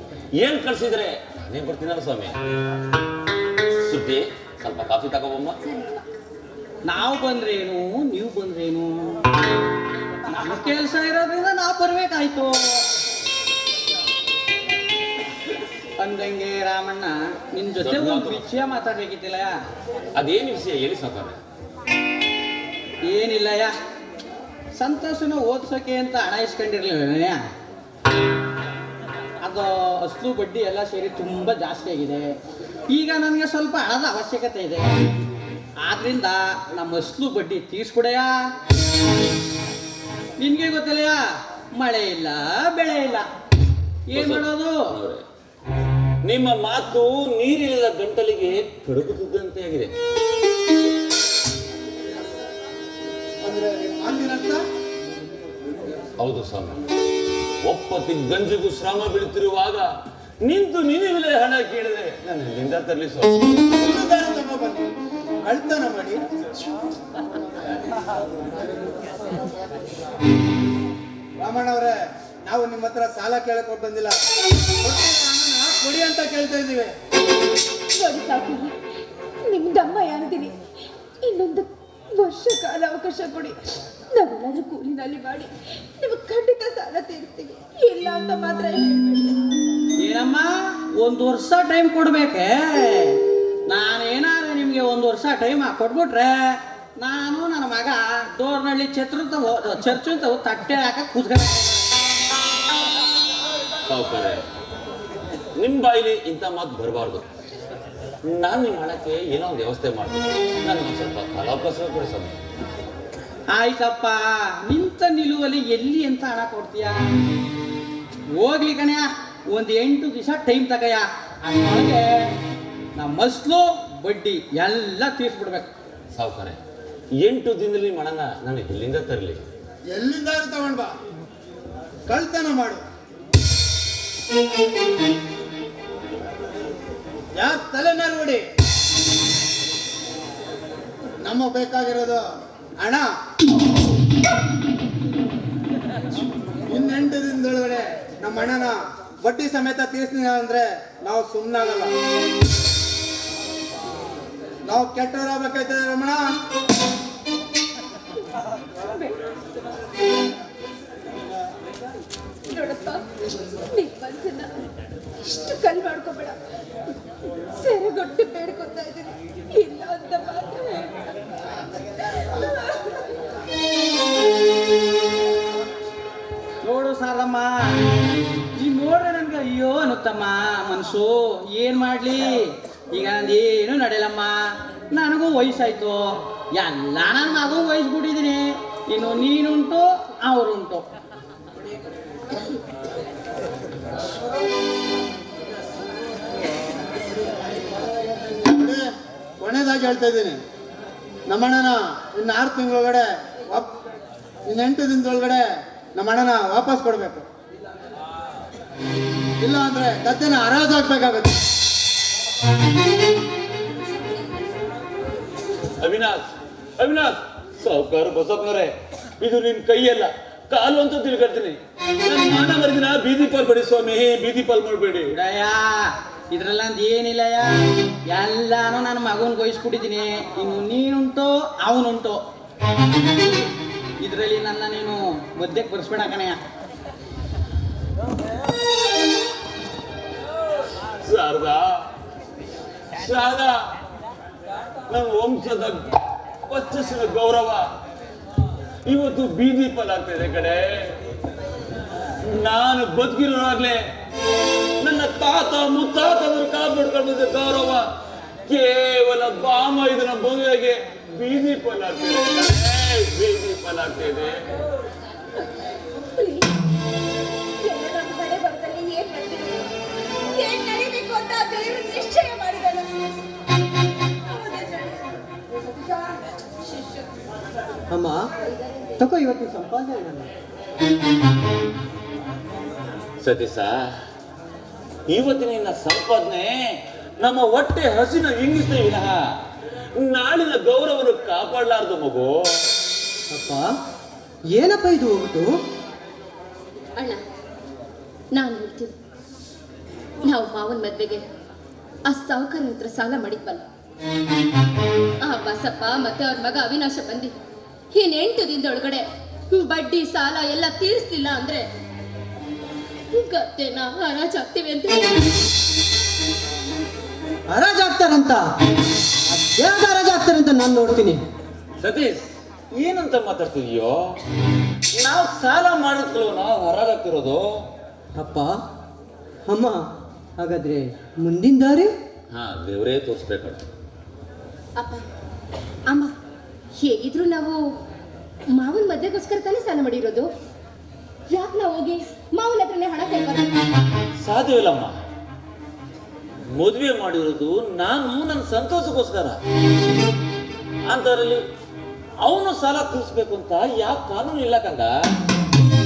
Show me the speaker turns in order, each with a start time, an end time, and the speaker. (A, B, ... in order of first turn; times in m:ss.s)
0:00.4-0:02.4 A
0:03.8-0:05.6 A
0:06.8-0:09.2 B
0:10.3-0:12.9 B
0:16.0-0:19.5 B
0:17.8-0:18.5 A
0:20.2-0:21.4 A
0:23.1-0:23.7 B
0:24.8-0:27.4 B
0:29.4-0:32.3 B
0:32.9-0:34.9 B
0:35.8-0:38.3 B
0:40.4-0:41.2 B
0:41.8-0:43.3 B
0:44.1-0:44.8 B
0:44.1-0:45.2 A
0:46.2-0:49.9 A
0:53.4-0:54.6 C
0:56.2-0:56.8 A
0:57.6-0:59.9 A
1:00.4-1:03.5 A
1:03.8-1:04.9 C
1:05.4-1:06.2 C
1:11.4-1:14.2 C
1:14.8-1:16.9 C
1:18.0-1:18.8 D
1:19.4-1:20.6 D
1:21.2-1:23.6 D
1:24.1-1:29.5 D
1:30.0-1:41.9 B
1:43.9-1:44.4 A
1:45.6-1:47.2 A
1:48.3-1:52.4 A
1:53.5-1:57.0 B
1:58.4-2:02.1 B
2:03.0-2:05.7 B
2:06.1-2:06.6 A
2:07.2-2:09.4 A
2:09.9-2:10.9 C
2:12.1-2:12.8 C
2:17.4-2:18.4 C
2:21.2-2:22.3 C
2:22.8-2:23.1 C
2:26.7-2:31.9 C
2:34.7-2:36.3 C
2:42.5-2:43.1 D
2:43.8-2:44.5 D
2:45.2-2:46.4 D
2:47.6-2:51.0 D
2:52.3-2:52.9 D
2:56.6-2:57.5 B
2:58.6-3:04.3 B
3:04.9-3:06.0 B
3:06.6-3:10.8 B
3:18.1-3:18.8 C
3:19.4-3:20.4 C
3:21.3-3:23.7 C
3:24.5-3:25.4 C
3:26.0-3:27.3 C
3:29.4-3:31.4 C
3:35.8-3:36.2 A
3:36.8-3:45.1 A
3:45.1-3:47.5 B
3:48.1-3:52.2 B
3:54.0-3:56.4 B
4:01.0-4:01.7 A
4:02.9-4:03.6 A
4:04.9-4:05.9 A
4:06.5-4:07.7 A
4:08.8-4:10.9 A
4:12.3-4:13.8 A
4:14.8-4:17.9 A
4:18.5-4:24.4 A
4:26.2-4:26.5 E
4:27.6-4:29.7 E
4:30.3-4:32.9 E
4:34.3-4:35.0 E
4:37.9-4:38.2 F
4:39.0-4:40.3 F
4:43.2-4:43.9 A
4:45.1-4:49.2 A
4:50.0-4:52.7 A
4:53.3-4:53.7 F
4:54.5-4:55.5 F
4:58.3-4:58.9 E
5:00.2-5:01.2 E
5:02.1-5:03.6 E
5:05.2-5:07.3 E
5:07.9-5:11.7 E
5:13.1-5:15.2 E
5:17.5-5:18.4 F
5:19.3-5:21.2 F
5:21.8-5:24.1 A
5:25.0-5:27.5 A
5:28.2-5:28.6 F
5:29.5-5:29.8 F
5:30.4-5:31.9 F
5:32.3-5:33.6 A
5:34.8-5:35.0 E
5:35.9-5:36.1 E
5:36.8-5:37.6 E
5:38.5-5:40.3 E
5:41.3-5:43.5 E
5:44.2-5:45.0 A
5:46.5-5:49.4 A
5:50.9-5:51.4 A
5:52.2-5:54.9 A